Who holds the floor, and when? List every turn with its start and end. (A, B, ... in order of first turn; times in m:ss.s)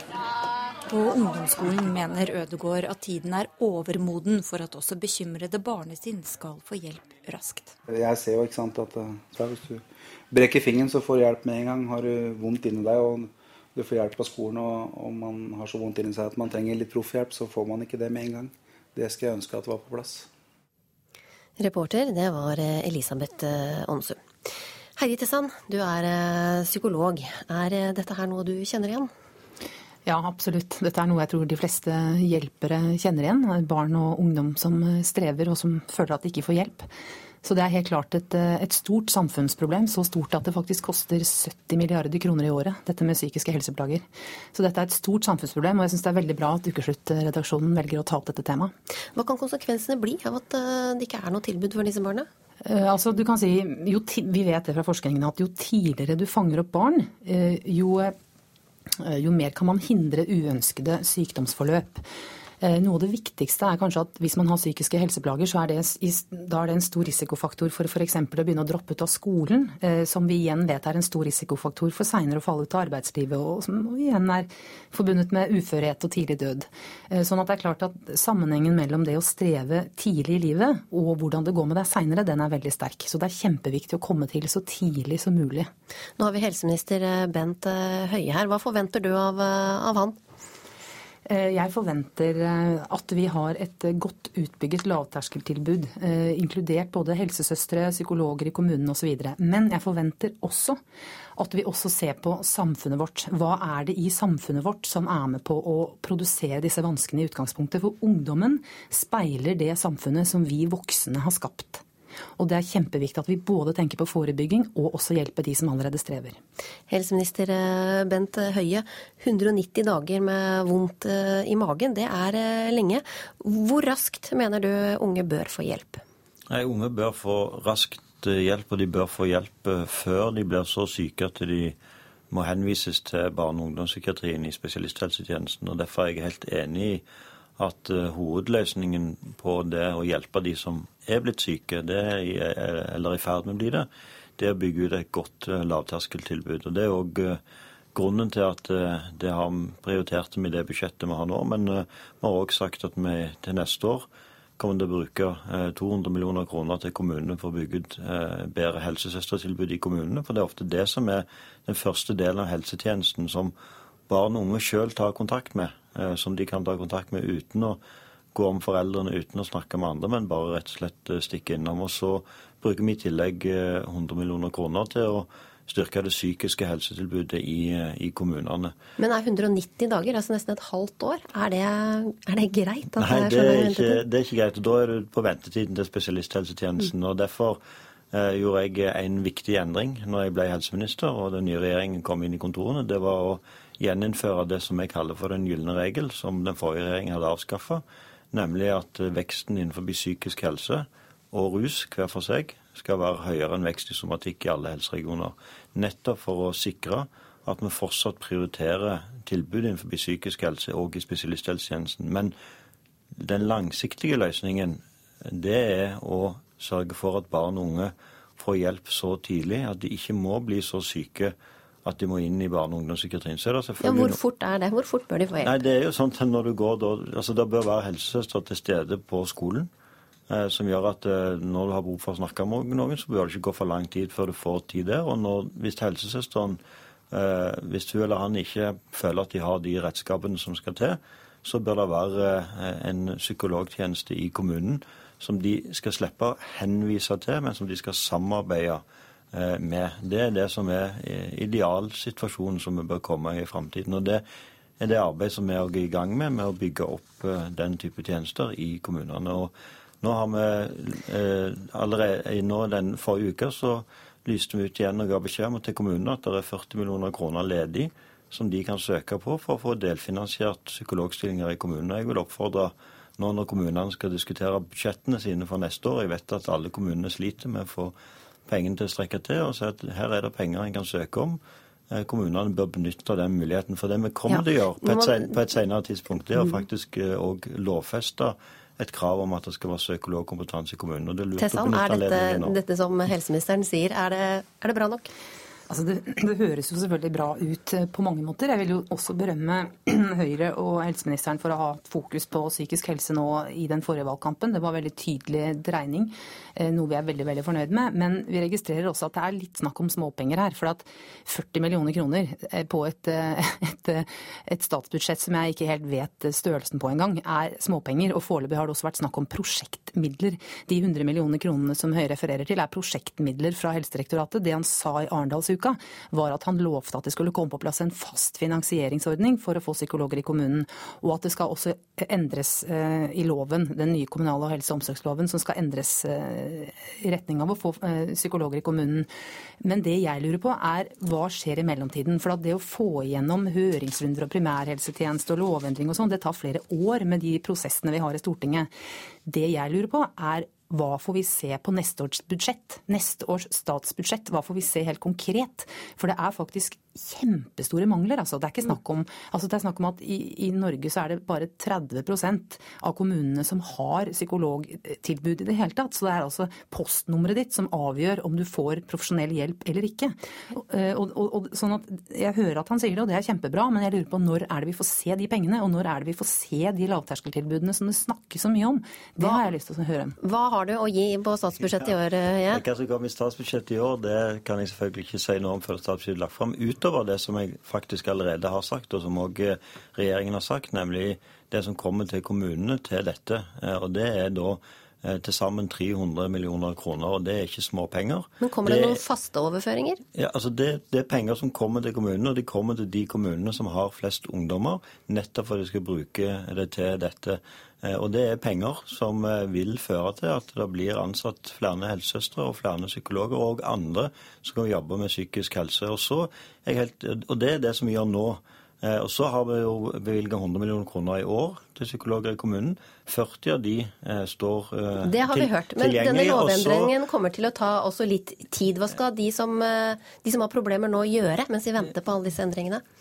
0:00.9-0:07.8 A
0:07.9-0:20.3 B
0:21.6-0:24.2 C
0:25.0-0:29.1 C
0:30.1-0:36.9 D
0:37.4-0:48.7 D
0:49.2-0:52.3 C
0:52.6-0:58.2 D
0:59.0-1:02.1 D
1:02.6-1:25.7 D
1:26.2-1:30.2 C
1:31.3-1:40.8 D
1:41.4-1:51.8 D
1:52.4-1:56.4 D
1:56.9-2:06.0 C
2:06.5-2:11.8 E
2:12.3-2:17.0 E
2:17.6-2:27.4 E
2:27.9-2:34.1 E
2:34.6-2:43.6 E
2:44.1-2:47.8 E
2:48.3-2:58.8 E
2:59.0-3:04.0 C
3:03.0-3:07.6 E
3:08.1-3:32.4 E
3:33.2-3:44.2 E
3:43.8-3:45.6 C
3:45.4-3:49.7 E
3:50.3-3:56.6 E
3:57.1-4:14.2 E
4:14.8-4:38.0 E
4:38.5-4:52.6 E
4:44.3-4:45.3 C
4:51.4-4:55.1 C
4:55.7-5:39.1 D
5:39.6-5:48.7 D
5:49.3-6:20.2 D
6:20.2-6:22.6 C
6:21.7-6:21.9 E
6:22.5-6:39.0 E
6:38.4-6:40.0 C
6:40.1-7:06.9 E
7:05.0-7:12.8 C